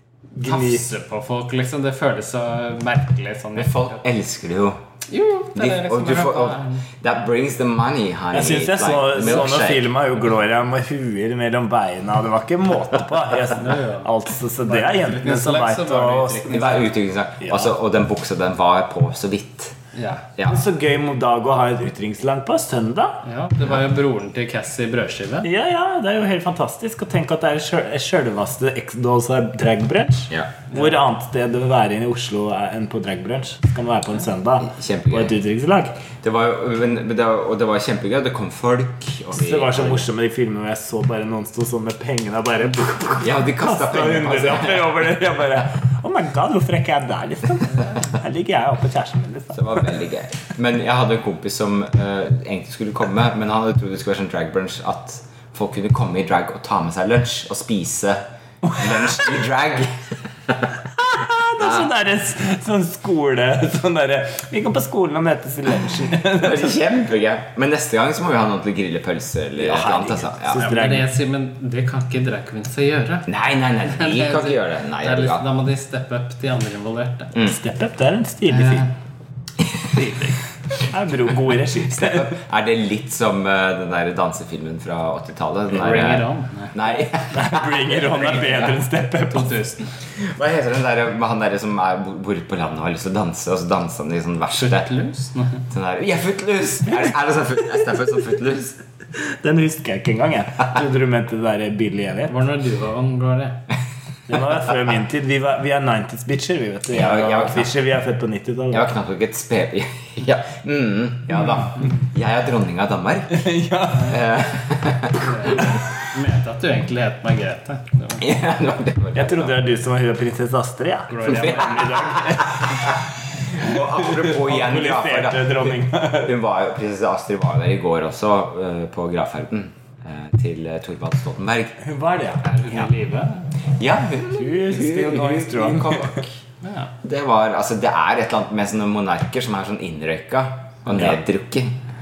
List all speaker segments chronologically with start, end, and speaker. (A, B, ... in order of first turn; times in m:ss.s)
0:00.4-0:00.8 A
0:00.4-0:04.0 B
0:03.6-0:04.8 C
0:05.1-0:06.9 B
0:05.5-0:09.9 C
0:08.3-0:16.6 A
0:13.6-0:14.1 B
0:14.6-0:16.9 B
0:16.5-0:19.8 C
0:19.9-0:20.2 B
0:20.4-0:23.2 A
0:23.2-0:25.5 B
0:25.4-0:36.0 A
0:34.6-0:35.3 C
0:36.2-0:40.1 C
0:39.3-0:49.8 A
0:43.2-0:45.0 C
0:49.5-1:00.7 C
0:58.6-0:59.4 A
1:01.0-1:06.8 A
1:01.6-1:01.9 C
1:06.4-1:10.7 C
1:09.6-1:11.1 A
1:10.6-1:13.3 B
1:13.2-1:15.4 C
1:13.8-1:17.3 B
1:17.4-1:18.8 A
1:18.5-1:18.9 B
1:20.8-1:22.3 A
1:21.9-1:28.0 C
1:25.7-1:26.8 B
1:27.3-1:29.6 A
1:28.0-1:30.0 B
1:30.2-1:34.9 C
1:34.5-1:35.6 B
1:35.7-1:38.8 C
1:39.2-1:42.3 A
1:42.3-1:43.6 B
1:44.3-1:48.9 A
1:46.9-1:47.7 C
1:48.7-1:53.4 C
1:53.3-1:54.2 A
1:54.0-1:55.6 C
1:55.2-1:58.3 B
1:58.2-1:59.6 C
1:59.1-2:06.3 A
2:01.1-2:02.1 B
2:01.3-2:02.7 C
2:03.5-2:11.8 C
2:11.8-2:12.4 A
2:12.4-2:13.5 B
2:13.8-2:16.3 C
2:14.3-2:16.2 A
2:16.6-2:16.9 B
2:17.0-2:21.7 C